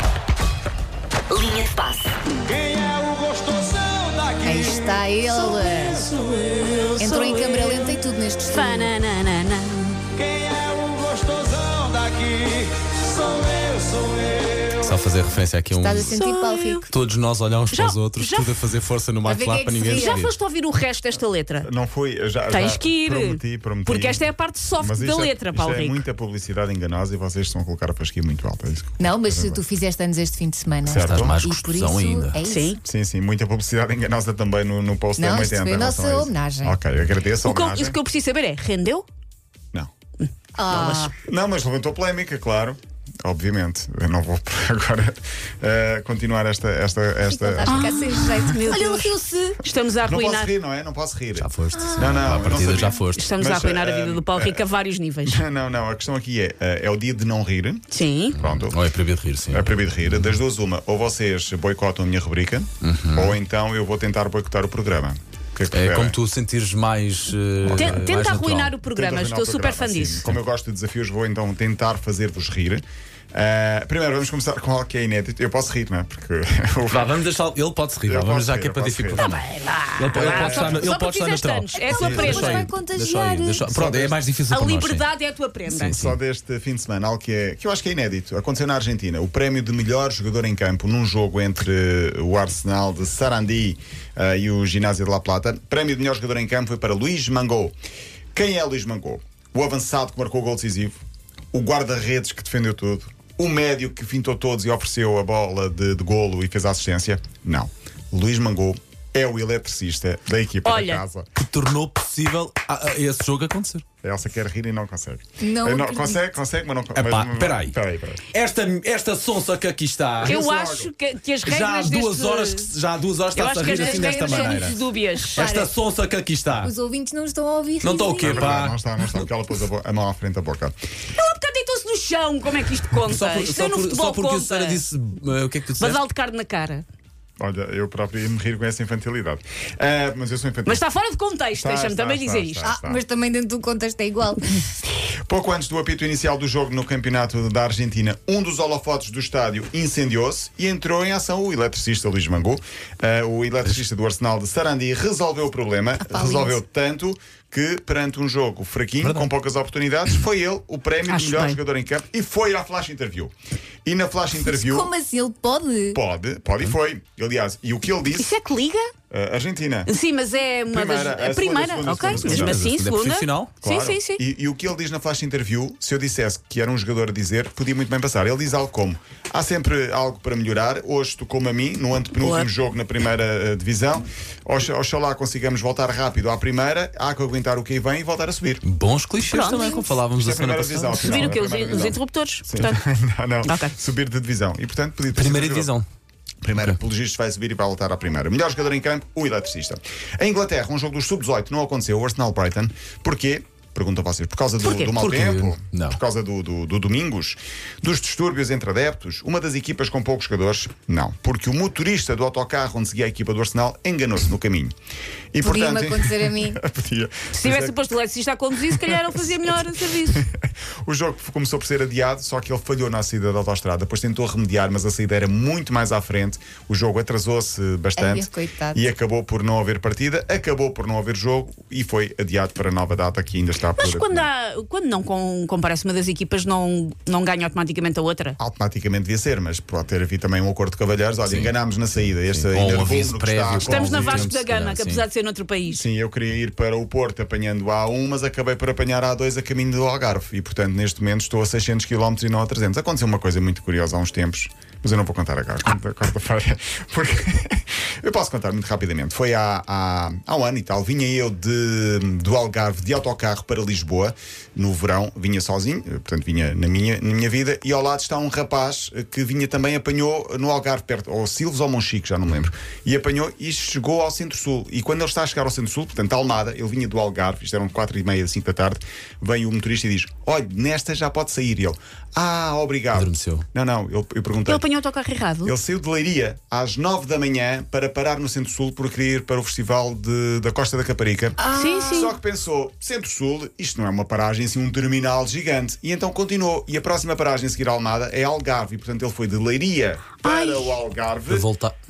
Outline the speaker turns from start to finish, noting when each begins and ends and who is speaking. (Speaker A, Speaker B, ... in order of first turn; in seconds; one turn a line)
Speaker A: 2.7-3.0
Speaker B: 3.1-4.2
Speaker C: 4.4-6.1
Speaker A: 5.3-10.1
Speaker C: 7.0-8.9
Speaker B: 11.0-12.6
Speaker D: 14.7-16.2
Speaker C: 15.8-16.9
Speaker A: 16.1-16.8
Speaker D: 16.9-20.3
Speaker A: 17.7-18.6
Speaker C: 19.2-20.3
Speaker A: 19.8-21.7
Speaker E: 21.6-29.6
Speaker A: 22.5-26.0
Speaker C: 29.0-32.8
Speaker E: 30.8-31.4
Speaker D: 30.9-32.4
Speaker A: 32.4-32.8
Speaker E: 32.8-38.0
Speaker C: 35.2-36.8
Speaker A: 37.4-39.0
Speaker C: 40.6-41.1
Speaker E: 40.7-48.0
Speaker C: 47.3-49.6
Speaker A: 47.6-50.5
Speaker E: 50.0-54.6
Speaker D: 51.4-53.3
Speaker C: 51.7-53.0
Speaker A: 53.1-55.4
Speaker E: 55.2-58.8
Speaker A: 57.9-58.4
Speaker D: 58.3-60.3
Speaker E: 59.5-66.2
Speaker D: 62.8-63.3
Speaker D: 65.7-68.8
Speaker A: 67.6-70.2
Speaker E: 68.9-77.2
Speaker D: 76.9-85.1
Speaker E: 78.0-79.3
Speaker A: 79.2-82.7
Speaker E: 80.1-80.9
Speaker C: 81.7-83.9
Speaker E: 83.8-84.1
Speaker A: 84.5-86.0
Speaker D: 85.7-86.2
Speaker E: 85.9-97.7
Speaker E: 98.3-101.0
Speaker E: 101.5-111.3
Speaker A: 110.6-111.0
Speaker D: 111.3-113.8
Speaker E: 114.0-118.2
Speaker C: 115.4-116.3
Speaker D: 116.9-117.8
Speaker D: 118.3-120.4
Speaker E: 120.2-120.9
Speaker A: 120.2-122.7
Speaker D: 121.4-124.8
Speaker A: 123.3-125.5
Speaker C: 123.7-125.7
Speaker D: 125.4-126.7
Speaker C: 126.6-128.5
Speaker D: 127.8-129.2
Speaker E: 128.2-130.7
Speaker A: 131.1-134.8
Speaker D: 133.1-136.0
Speaker A: 135.7-136.8
Speaker E: 137.4-140.8
Speaker A: 140.7-142.7
Speaker E: 141.5-143.0
Speaker C: 142.6-144.7
Speaker E: 145.2-163.3
Speaker C: 156.0-156.6
Speaker D: 159.0-159.3
Speaker A: 161.1-161.6
Speaker E: 163.8-164.9
Speaker C: 164.3-166.0
Speaker E: 165.9-168.3
Speaker A: 168.1-168.9
Speaker E: 169.1-169.9
Speaker A: 169.9-174.2
Speaker E: 170.7-172.7
Speaker D: 172.1-173.5
Speaker E: 173.6-188.6
Speaker A: 182.2-182.5
Speaker D: 188.6-191.4
Speaker A: 189.2-189.8
Speaker E: 190.2-195.7
Speaker A: 191.0-192.8
Speaker A: 193.4-193.7
Speaker D: 195.1-195.8
Speaker E: 196.4-214.7
Speaker A: 204.6-205.2
Speaker D: 205.1-206.0
Speaker E: 215.3-217.8
Speaker C: 215.4-216.6
Speaker A: 217.3-220.2
Speaker E: 218.7-219.1
Speaker E: 219.9-234.2
Speaker C: 227.9-228.8
Speaker A: 233.8-238.3
Speaker E: 238.4-244.3
Speaker D: 241.2-245.1
Speaker A: 243.6-245.8
Speaker E: 245.7-284.6
Speaker D: 282.9-283.4
Speaker A: 284.4-285.5
Speaker E: 285.4-301.5
Speaker C: 291.4-292.1
Speaker A: 291.5-292.1
Speaker A: 300.2-300.8
Speaker D: 301.3-301.7